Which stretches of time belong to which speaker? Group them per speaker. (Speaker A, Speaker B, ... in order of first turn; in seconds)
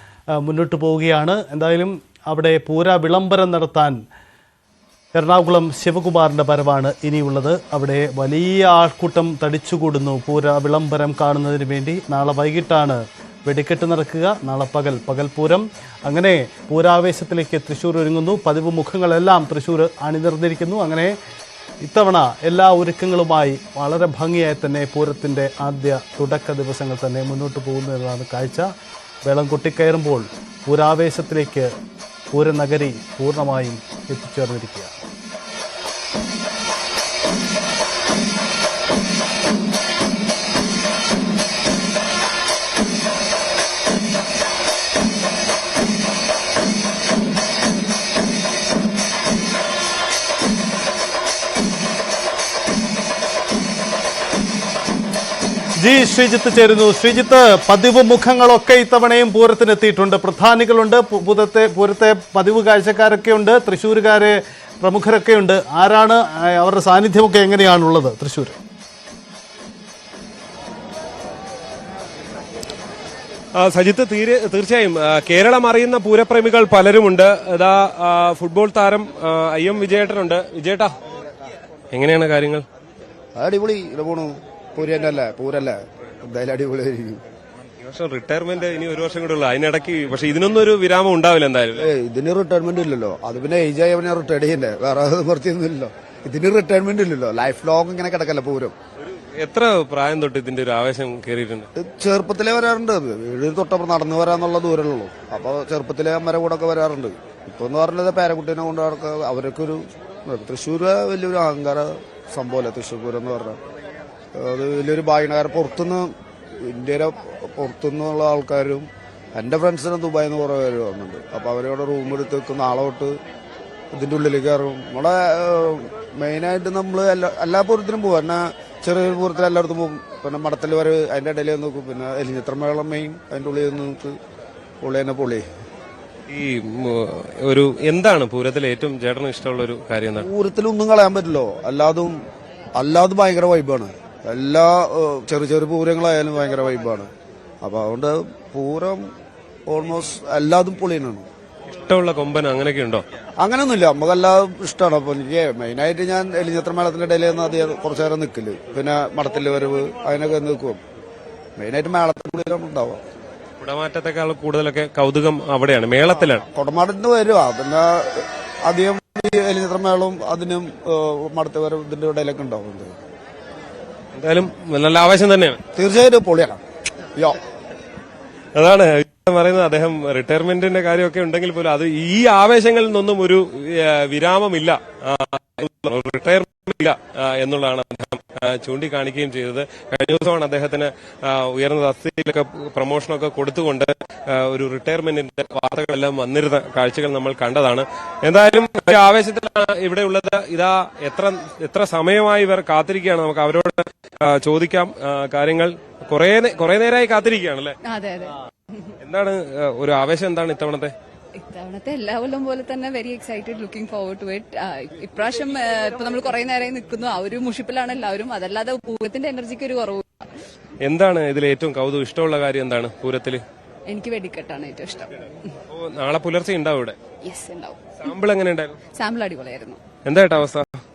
Speaker A: 0.3-4.0, 5.1-21.1, 21.8-28.7, 29.2-31.7, 32.3-35.0, 55.8-68.5
Speaker B: 73.6-80.9, 81.9-82.6, 87.8-91.9, 99.1-101.7, 136.3-140.3, 151.7-153.0, 163.6-166.4, 174.1-175.6, 178.5-207.8, 209.0-210.9, 220.8-223.4, 225.7-226.9, 228.0-228.8, 230.0-230.8
Speaker C: 83.3-87.2, 91.8-98.7, 101.7-113.6, 114.3-123.1, 123.9-134.2, 134.8-135.4, 140.2-142.2, 142.7-147.1, 147.6-149.1, 149.7-151.3, 153.4-160.8, 161.6-163.0, 166.2-173.0, 175.7-176.6
Speaker D: 207.8-208.3, 211.4-220.3, 223.9-225.2, 227.2-228.0, 228.9-229.8